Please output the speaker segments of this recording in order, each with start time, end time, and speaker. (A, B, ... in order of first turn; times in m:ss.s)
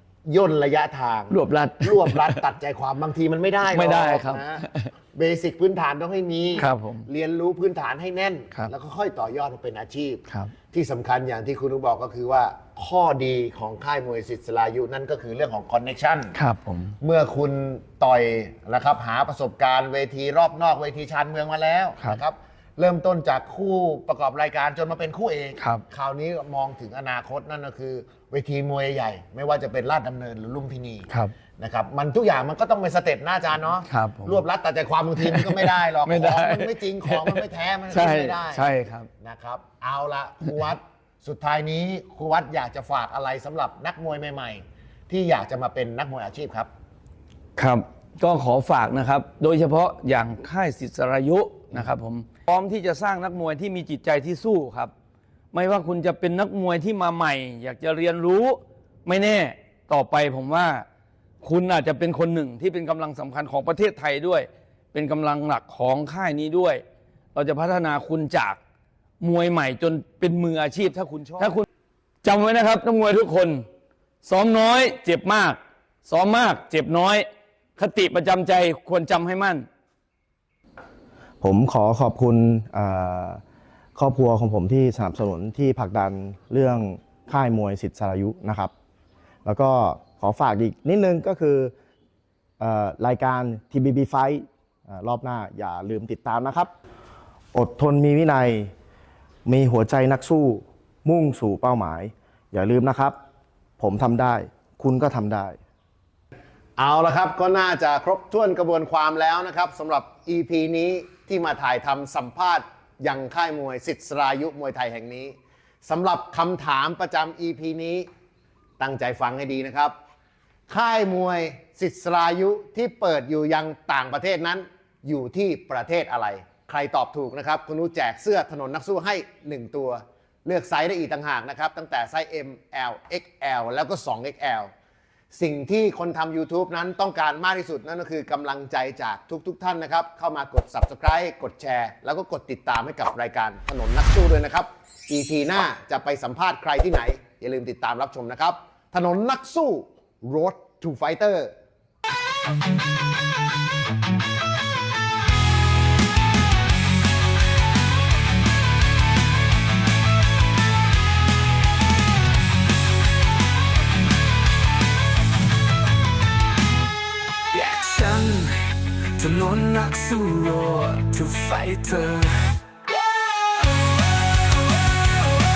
0:00.2-0:16.3 A
0:01.3-0:02.5 B
0:03.6-0:04.9 B
0:06.6-0:07.1 B
0:10.3-0:10.5 B
0:16.3-0:16.9 B
0:17.0-0:38.7 A
0:25.6-0:25.8 B
0:33.8-0:34.4 B
0:35.2-0:39.1 B
0:39.2-0:46.7 A
0:47.6-0:54.9 B
0:55.5-1:00.8 B
1:01.4-1:06.8 B
1:07.3-1:08.6 B
1:09.2-1:11.6 B
1:11.1-1:11.5 A
1:12.2-1:13.6 B
1:14.2-1:17.2 B
1:17.8-1:19.6 B
1:21.4-1:23.4 C
1:24.0-1:28.7 C
1:29.4-1:31.7 C
1:32.6-1:36.7 C
1:37.5-1:38.7 C
1:39.4-1:43.2 C
1:43.8-1:45.6 C
1:46.8-1:58.1 A
1:58.8-1:59.9 A
2:00.7-2:14.7 A
2:15.3-2:31.5 A
2:47.5-2:52.6 D